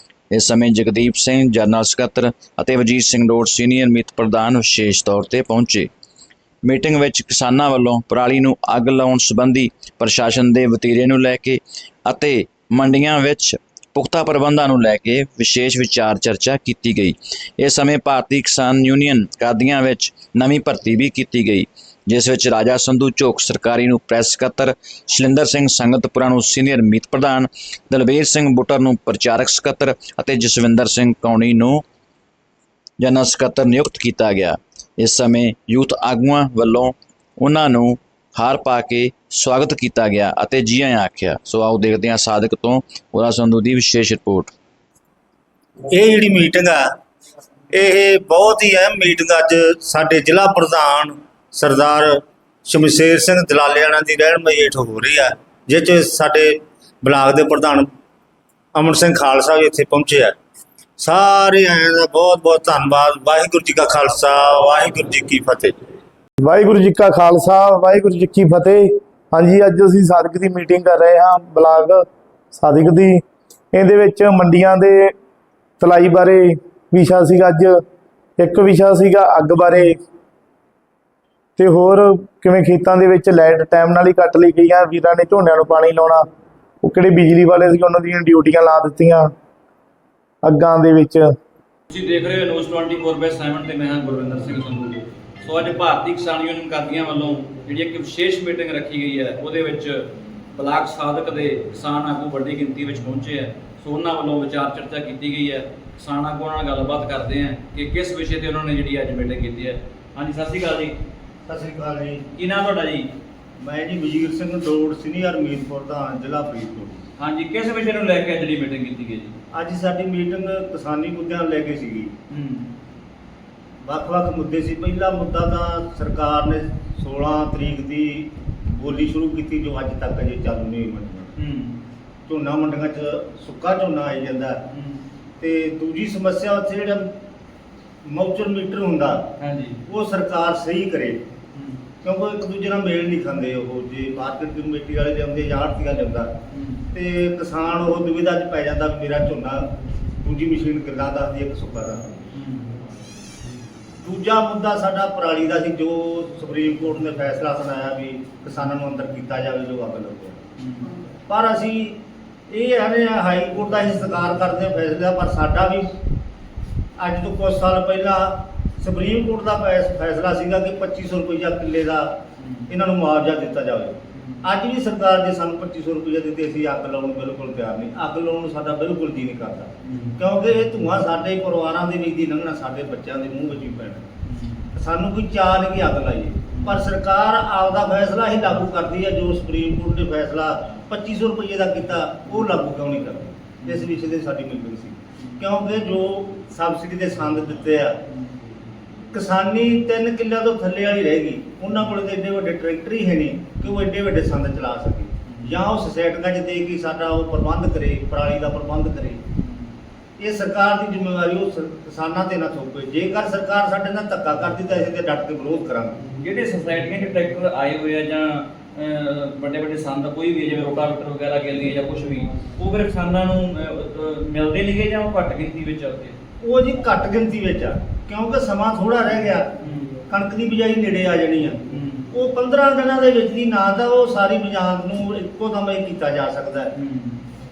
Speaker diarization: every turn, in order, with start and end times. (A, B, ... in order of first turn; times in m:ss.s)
0:00.3-0:05.9 A
0:06.6-0:31.8 A
0:33.0-0:44.5 A
0:45.9-0:46.8 B
0:47.7-0:57.9 B
0:58.7-1:00.3 B
1:01.0-1:05.8 B
1:06.4-1:13.2 C
1:13.7-1:15.1 C
1:15.8-1:17.8 C
1:18.4-1:20.0 C
1:21.6-1:26.2 C
1:26.8-1:29.3 C
1:30.4-1:31.3 C
1:31.9-1:51.0 D
1:51.5-1:52.3 B
1:52.3-1:53.1 D
1:53.6-1:57.0 B
1:57.2-1:59.3 D
1:59.5-2:02.1 B
2:02.3-2:02.7 D
2:03.8-2:11.3 B
2:11.4-2:11.8 D
2:12.3-2:14.6 B
2:14.7-2:15.0 D
2:15.4-2:17.1 B
2:18.0-2:19.2 B
2:19.4-2:19.8 D
2:19.9-2:21.2 B
2:21.5-2:21.8 D
2:22.0-2:26.3 B
2:26.5-2:26.8 D
2:26.9-2:29.7 B
2:30.2-2:32.1 B
2:32.3-2:32.7 D
2:34.0-2:40.4 B
2:40.6-2:40.9 D
2:41.3-2:42.0 B
2:42.5-2:45.9 B
2:47.0-2:52.2 B
2:52.4-2:52.7 D
2:52.7-3:04.0 B
2:54.1-2:54.4 D
2:59.8-3:00.2 D
3:04.2-3:04.7 D
3:04.8-3:18.0 B
3:06.5-3:06.8 D
3:13.6-3:13.9 D
3:15.2-3:15.4 D
3:18.0-3:18.3 D
3:19.1-3:29.2 B
3:25.3-3:25.6 D
3:29.3-3:29.7 D
3:30.2-3:36.0 B
3:36.2-3:46.2 D
3:46.4-3:49.5 B
3:49.6-3:50.0 D
3:50.1-3:51.6 B
3:51.7-3:52.1 D
3:52.1-3:56.7 B
3:56.7-3:57.2 D